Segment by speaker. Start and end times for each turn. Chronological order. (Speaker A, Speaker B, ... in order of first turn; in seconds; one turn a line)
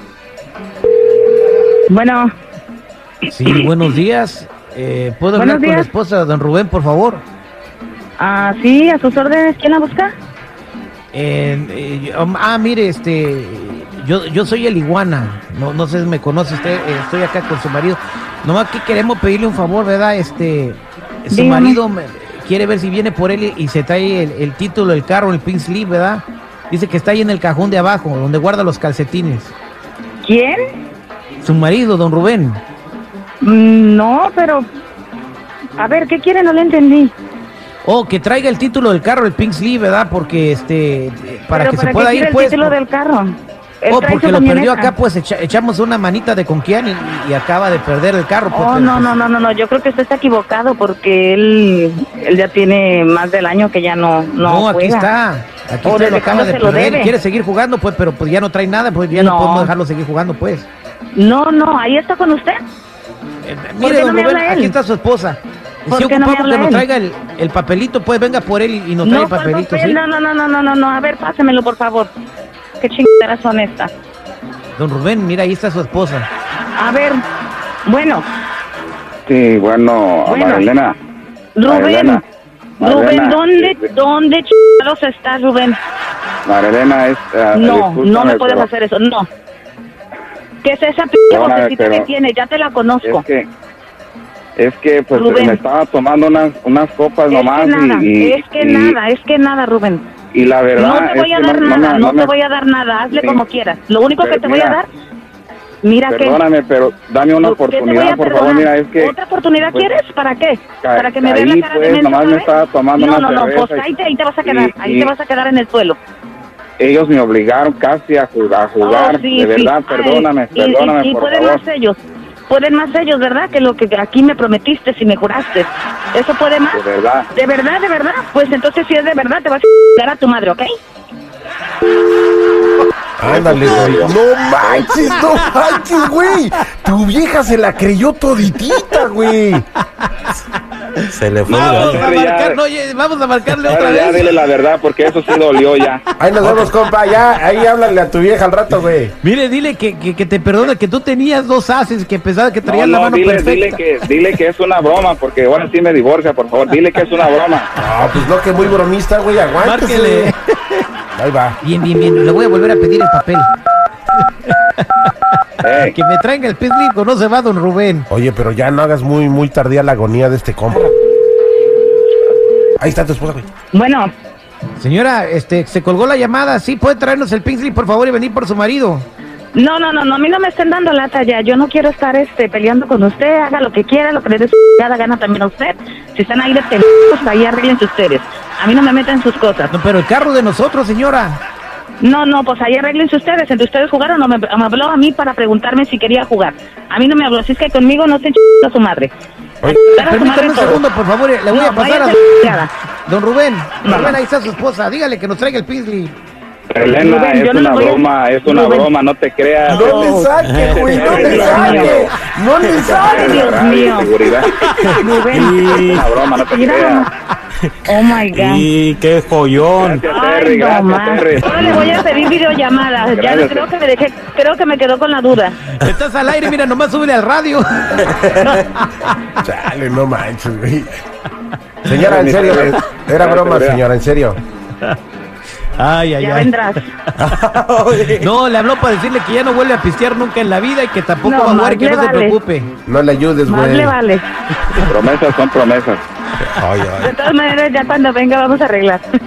Speaker A: 1.9-2.3
Speaker B: 3.3-7.2
Speaker A: 5.3-5.9
Speaker A: 8.2-10.2
Speaker B: 11.1-29.5
Speaker A: 21.3-21.8
Speaker A: 30.2-30.6
Speaker B: 31.4-32.6
Speaker A: 33.4-34.7
Speaker A: 35.8-37.1
Speaker B: 37.8-42.8
Speaker A: 41.5-44.9
Speaker B: 43.9-49.1
Speaker A: 48.5-55.0
Speaker B: 54.4-60.7
Speaker A: 55.8-57.1
Speaker A: 59.1-59.7
Speaker A: 61.1-62.6
Speaker B: 63.4-70.0
Speaker A: 63.8-64.7
Speaker A: 65.9-66.8
Speaker A: 69.0-72.1
Speaker A: 72.8-73.9
Speaker B: 74.8-76.3
Speaker A: 76.8-77.2
Speaker A: 77.8-78.3
Speaker C: 79.3-81.0
Speaker A: 80.2-80.7
Speaker A: 81.5-82.2
Speaker C: 81.7-82.2
Speaker C: 82.8-83.8
Speaker A: 82.8-85.8
Speaker C: 86.4-88.7
Speaker A: 87.5-89.3
Speaker A: 90.6-93.2
Speaker C: 91.3-92.1
Speaker C: 93.0-93.5
Speaker C: 94.6-99.0
Speaker A: 95.1-95.6
Speaker A: 97.3-100.1
Speaker C: 100.3-102.3
Speaker A: 100.8-104.9
Speaker C: 103.1-103.4
Speaker C: 104.2-104.8
Speaker A: 105.8-106.4
Speaker C: 106.1-109.1
Speaker A: 107.4-116.0
Speaker C: 110.8-113.9
Speaker C: 114.4-115.1
Speaker C: 116.8-121.6
Speaker A: 118.8-122.0
Speaker A: 122.5-126.8
Speaker C: 126.7-127.3
Speaker A: 127.3-130.7
Speaker D: 133.2-139.6
Speaker C: 133.2-134.9
Speaker B: 135.8-136.0
Speaker B: 140.0-140.3
Speaker E: 141.1-142.1
Speaker C: 141.5-142.6
Speaker B: 141.5-144.3
Speaker C: 143.6-146.0
Speaker B: 146.1-146.7
Speaker D: 146.2-149.1
Speaker B: 149.2-153.8
Speaker C: 152.7-157.8
Speaker D: 157.8-160.3
Speaker B: 159.6-160.8
Speaker D: 161.1-161.6
Speaker B: 161.6-163.5
Speaker B: 164.5-165.1
Speaker C: 165.6-165.9
Speaker B: 165.7-168.1
Speaker D: 168.1-170.9
Speaker D: 172.8-173.5
Speaker A: 173.7-174.1
Speaker B: 174.8-179.1
Speaker A: 179.5-189.7
Speaker B: 189.7-191.4
Speaker A: 192.0-199.1
Speaker A: 199.9-200.8
Speaker B: 200.0-206.1
Speaker A: 201.5-202.7
Speaker A: 203.8-204.2
Speaker C: 206.7-212.1
Speaker A: 206.9-208.9
Speaker D: 209.7-213.6
Speaker A: 209.7-210.3
Speaker E: 210.4-210.9
Speaker A: 210.9-212.0
Speaker A: 212.8-214.1
Speaker C: 212.8-214.5
Speaker E: 214.8-216.2
Speaker A: 214.9-217.1
Speaker C: 215.7-217.1
Speaker A: 217.8-218.7
Speaker E: 218.3-220.0
Speaker C: 219.7-221.8
Speaker A: 220.0-225.6
Speaker C: 223.1-223.7
Speaker B: 225.8-229.1
Speaker D: 229.4-231.0
Speaker D: 231.8-234.4
Speaker C: 231.9-233.8
Speaker B: 235.8-236.5
Speaker A: 236.2-236.8
Speaker E: 237.2-238.3
Speaker B: 238.1-242.7
Speaker A: 241.2-242.3
Speaker D: 242.8-244.0
Speaker A: 243.4-244.2
Speaker C: 244.8-246.0
Speaker D: 246.5-247.1
Speaker A: 247.0-249.0